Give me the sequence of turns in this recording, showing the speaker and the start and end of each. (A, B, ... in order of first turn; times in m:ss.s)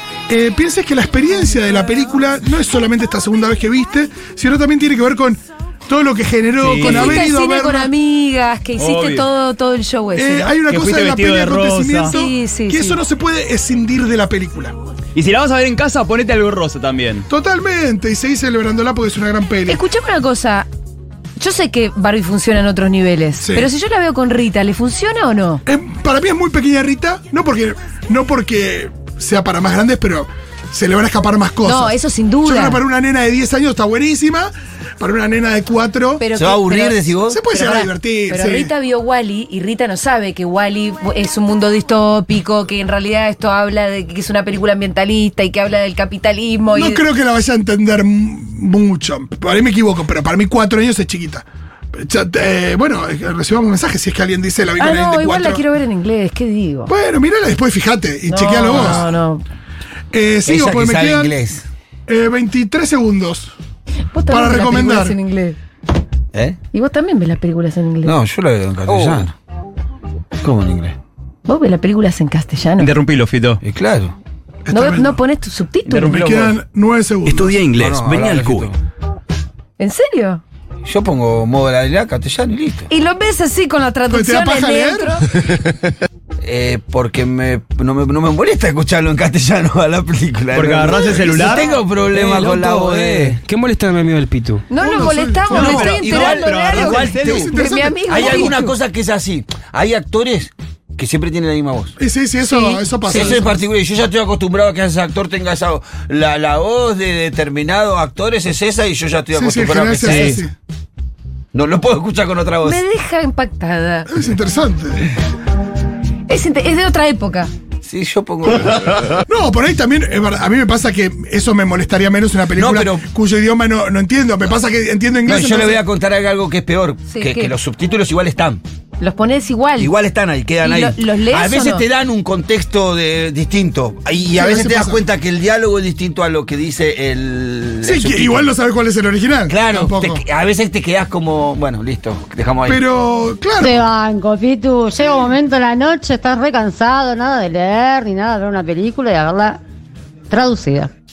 0:00.3-0:07.9 A
0:06.6-0:07.2 B
0:06.8-0:10.6 C
0:08.8-0:09.3 B
0:10.1-0:14.7 A
0:10.7-0:12.1 B
0:12.1-0:13.0 C
0:15.2-0:17.3 B
0:17.3-0:19.8 A
0:19.7-0:20.7 C
0:21.4-0:25.6 C
0:23.4-0:23.7 A
0:25.6-0:36.2 A
0:31.6-0:32.8 C
0:36.2-0:47.0 C
0:36.4-0:37.4 D
0:37.3-0:38.7 A
0:46.7-0:55.6 A
0:54.8-0:56.9 C
0:56.9-0:59.1 A
0:58.3-0:59.4 C
0:58.7-0:59.1 D
1:00.1-1:01.4 A
1:00.5-1:01.6 D
1:02.1-1:03.5 A
1:04.1-1:05.6 C
1:04.3-1:05.2 A
1:06.3-1:06.6 D
1:06.7-1:08.2 C
1:08.0-1:09.3 D
1:10.4-1:11.0 D
1:11.5-1:12.9 C
1:12.8-1:13.6 B
1:13.6-1:14.1 D
1:14.7-1:15.2 A
1:14.7-1:16.2 C
1:15.9-1:16.6 B
1:16.0-1:17.6 A
1:17.3-1:18.6 B
1:17.5-1:18.7 E
1:17.7-1:18.8 D
1:19.8-1:20.4 C
1:20.8-1:22.9 D
1:22.9-1:25.2 C
1:24.1-1:25.2 A
1:26.4-1:33.4 D
1:30.5-1:33.6 B
1:30.9-1:31.8 C
1:32.4-1:34.6 E
1:34.7-1:38.8 C
1:34.8-1:36.0 A
1:35.5-1:37.5 B
1:35.8-1:37.5 D
1:36.7-1:38.6 A
1:38.1-1:42.0 D
1:42.0-1:43.6 A
1:42.4-1:43.5 C
1:43.1-1:50.4 D
1:49.3-1:50.5 A
1:50.0-1:50.4 B
1:51.5-1:52.8 D
1:52.6-1:54.1 C
1:54.1-1:55.1 A
1:56.3-1:57.5 C
1:57.8-1:59.2 D
1:59.2-2:05.8 A
2:02.5-2:03.0 D
2:05.2-2:08.6 D
2:07.1-2:07.5 C
2:09.0-2:09.9 C
2:09.8-2:18.5 D
2:10.6-2:11.9 C
2:14.3-2:15.0 A
2:17.8-2:20.2 A
2:19.5-2:22.8 D
2:22.6-2:23.8 A
2:23.6-2:29.6 F
2:30.3-2:30.9 F